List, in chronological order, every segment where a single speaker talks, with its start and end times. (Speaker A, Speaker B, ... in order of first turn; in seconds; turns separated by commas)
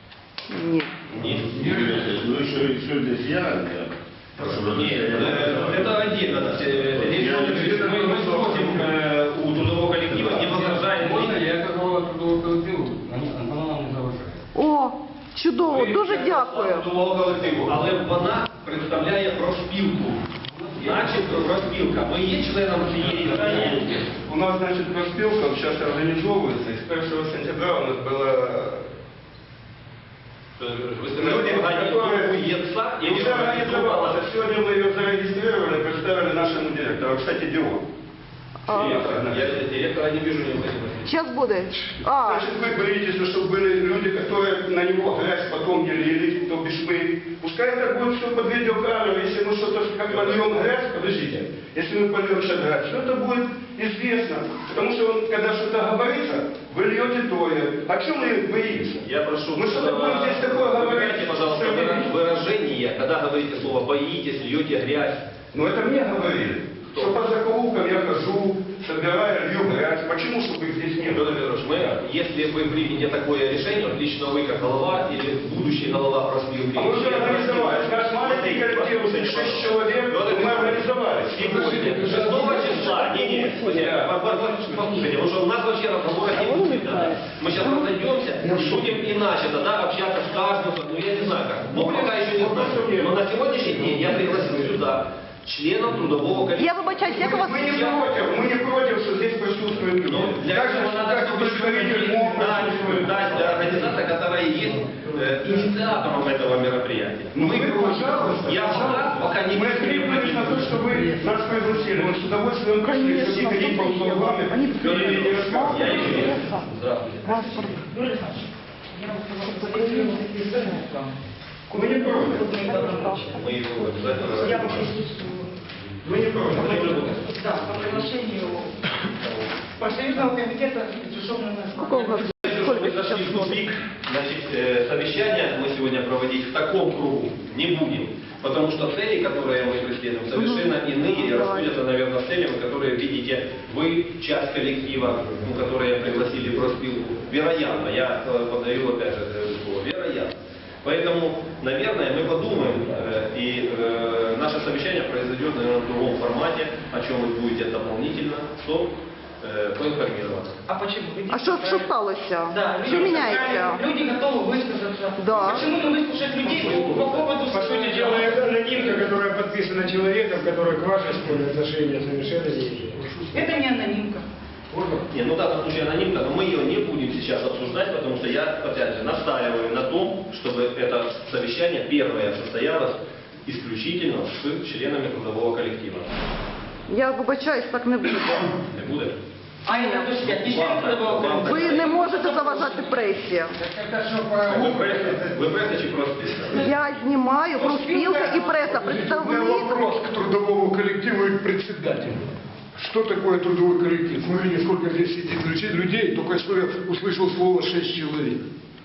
Speaker A: 0.5-1.0, Speaker B: 1.1-2.2, Speaker C: 1.6-5.9, Speaker B: 4.4-11.5, Speaker C: 7.1-8.2, Speaker D: 7.5-8.8, Speaker E: 10.8-14.2, Speaker A: 14.5-16.9, Speaker B: 15.7-24.1, Speaker E: 21.0-21.3, Speaker D: 24.2-28.8, Speaker B: 30.6-34.3, Speaker D: 31.2-32.3, Speaker D: 33.0-37.8, Speaker B: 38.7-41.1, Speaker D: 38.7-39.5, Speaker A: 41.0-42.5, Speaker D: 42.2-62.1, Speaker B: 50.1-50.4, Speaker B: 59.0-65.3, Speaker D: 65.5-71.2, Speaker B: 66.9-67.2, Speaker B: 71.1-98.2, Speaker D: 76.7-81.5, Speaker E: 81.4-83.1, Speaker A: 83.0-83.8, Speaker D: 83.7-84.9, Speaker A: 86.3-87.9, Speaker D: 91.7-93.1, Speaker A: 96.6-98.0, Speaker D: 97.1-103.8, Speaker B: 100.0-110.9, Speaker D: 107.3-116.3, Speaker E: 108.0-108.3, Speaker A: 112.8-116.7, Speaker B: 114.8-117.5, Speaker A: 117.2-117.8, Speaker F: 117.3-121.2, Speaker A: 119.4-120.2, Speaker A: 121.7-124.0, Speaker D: 121.7-122.7, Speaker F: 121.8-123.4, Speaker B: 123.3-124.9, Speaker F: 124.2-125.5, Speaker D: 126.0-127.2, Speaker B: 126.4-127.3, Speaker F: 127.2-128.7, Speaker B: 129.0-129.5, Speaker F: 129.8-132.3, Speaker A: 131.8-133.6, Speaker B: 132.3-160.6, Speaker A: 140.3-140.7, Speaker A: 141.2-141.7, Speaker F: 160.7-161.9, Speaker A: 161.3-163.9, Speaker F: 162.5-168.5, Speaker A: 165.2-165.7, Speaker B: 165.3-167.3, Speaker G: 167.5-173.0, Speaker B: 168.6-168.9, Speaker E: 173.0-173.5, Speaker F: 173.3-174.2, Speaker E: 174.7-175.0, Speaker B: 175.1-186.1, Speaker A: 186.9-188.5, Speaker B: 188.5-189.2, Speaker F: 189.6-193.1, Speaker A: 189.7-190.2, Speaker B: 190.2-192.3, Speaker A: 191.4-193.6, Speaker B: 194.3-196.8, Speaker A: 196.5-199.9, Speaker F: 197.5-198.6, Speaker E: 198.6-208.4